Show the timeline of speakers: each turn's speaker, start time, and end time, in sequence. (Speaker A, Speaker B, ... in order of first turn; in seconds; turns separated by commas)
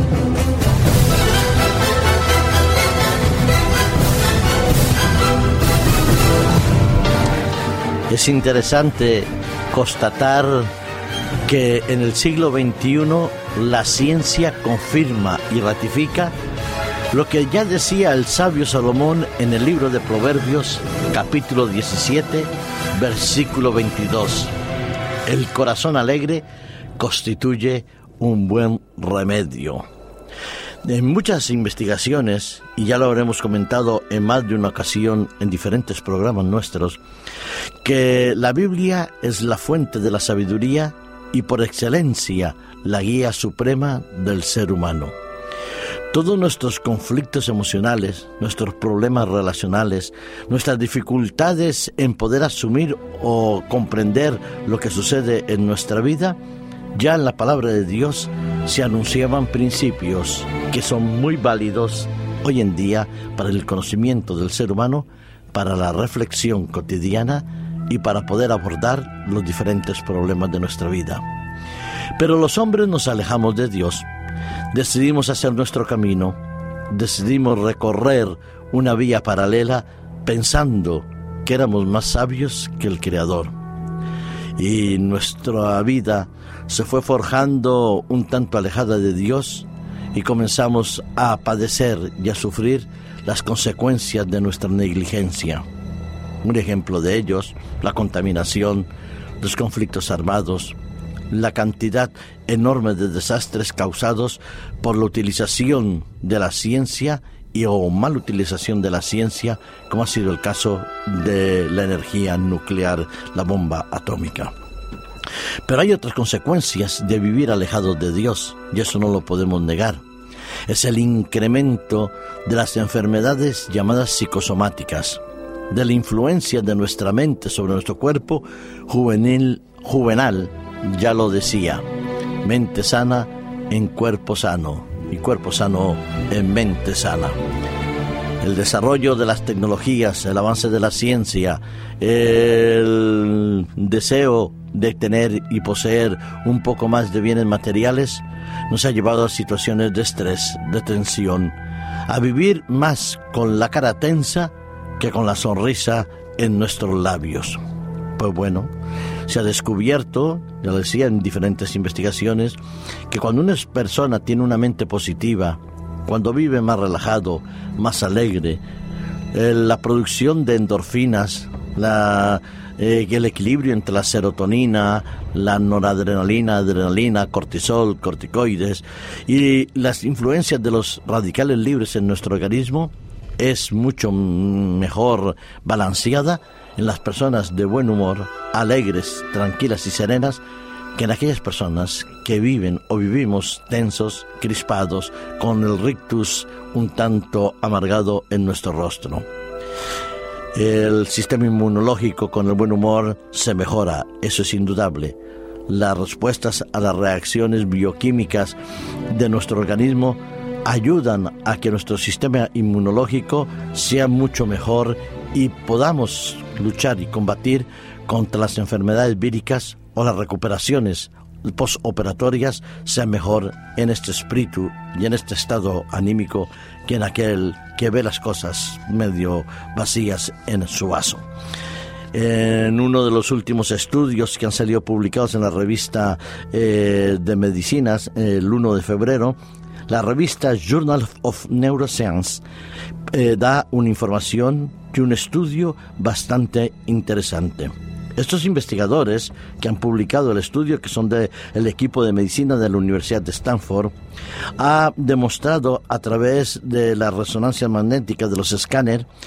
Speaker A: 8.1-10.7, Speaker A: 11.5-16.3, Speaker A: 17.1-24.5, Speaker A: 25.3-26.5, Speaker A: 27.0-29.9, Speaker A: 30.8-37.0, Speaker A: 37.8-45.1, Speaker A: 46.1-56.4, Speaker A: 56.9-71.2, Speaker A: 72.2-74.1, Speaker A: 74.7-76.4, Speaker A: 76.9-83.5, Speaker A: 84.6-95.7, Speaker A: 96.4-98.9, Speaker A: 99.4-100.8, Speaker A: 101.3-114.5, Speaker A: 115.7-120.0, Speaker A: 120.7-131.8, Speaker A: 132.4-137.4, Speaker A: 138.4-151.6, Speaker A: 152.1-157.6, Speaker A: 158.2-158.7, Speaker A: 159.3-162.6, Speaker A: 163.1-168.6, Speaker A: 169.3-190.4, Speaker A: 190.9-199.3, Speaker A: 200.5-205.2, Speaker A: 205.7-208.6, Speaker A: 209.1-231.2, Speaker A: 232.1-239.4, Speaker A: 239.9-242.4, Speaker A: 243.1-253.9, Speaker A: 254.6-259.1